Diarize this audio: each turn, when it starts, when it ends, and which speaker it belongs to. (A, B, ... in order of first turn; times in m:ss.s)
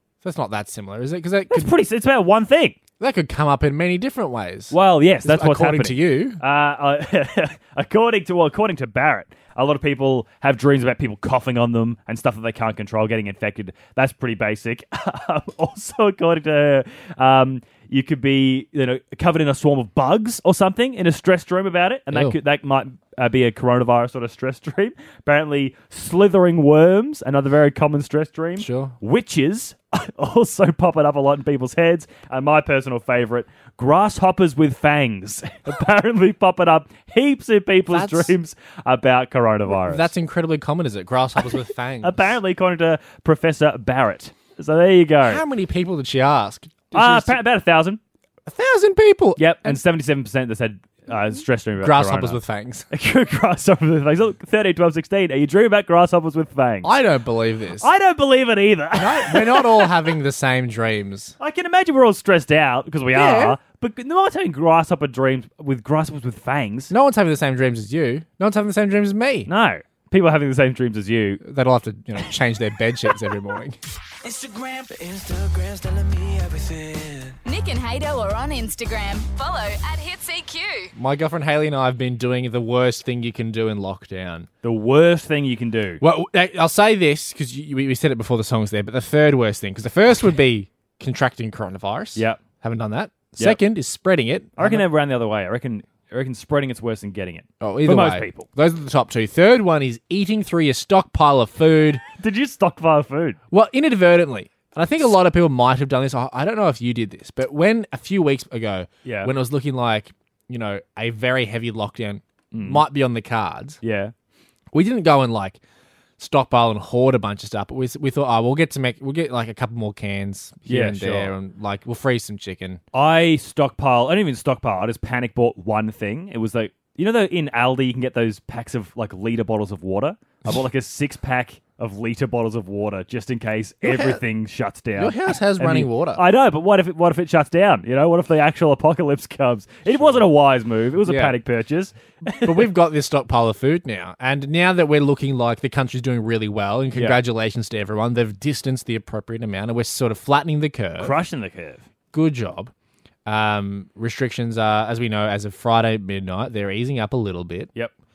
0:00.2-0:01.7 A
0:01.5-0:02.8 B
0:03.0-0:06.4 A
0:04.7-0:40.1 B
0:22.1-0:22.4 A
0:28.6-0:29.0 A
0:37.9-0:38.4 A
0:39.7-0:42.3 A
0:41.4-0:45.4 B
0:45.2-0:47.4 A
0:46.9-0:48.0 B
0:48.4-0:49.8 A
0:49.4-0:56.9 B
0:51.8-0:52.9 A
0:56.8-0:57.9 A
0:57.8-1:00.1 B
0:58.9-1:01.3 A
1:01.4-1:06.9 B
1:03.1-1:03.6 A
1:06.9-1:09.5 A
1:09.4-1:11.4 B
1:11.4-1:13.8 A
1:14.2-1:17.4 C
1:17.4-1:20.9 D
1:20.9-1:24.5 A
1:24.6-1:26.0 B
1:26.0-1:34.9 A
1:32.1-1:32.4 B
1:33.4-1:33.6 B
1:34.6-1:38.5 B
1:37.6-1:42.0 A
1:42.2-1:43.4 B
1:43.5-1:53.8 A
1:49.0-1:49.3 B
1:52.5-1:52.8 B
1:53.8-1:54.1 B
1:54.7-1:55.6 A
1:56.2-2:02.8 A
2:00.6-2:01.3 B
2:02.9-2:22.7 B
2:13.8-2:14.2 A
2:15.0-2:16.2 A
2:19.9-2:20.3 A
2:21.0-2:21.4 A
2:22.3-2:31.2 A
2:26.9-2:27.2 B
2:31.0-2:31.8 B
2:32.1-2:32.7 A
2:33.2-2:37.7 A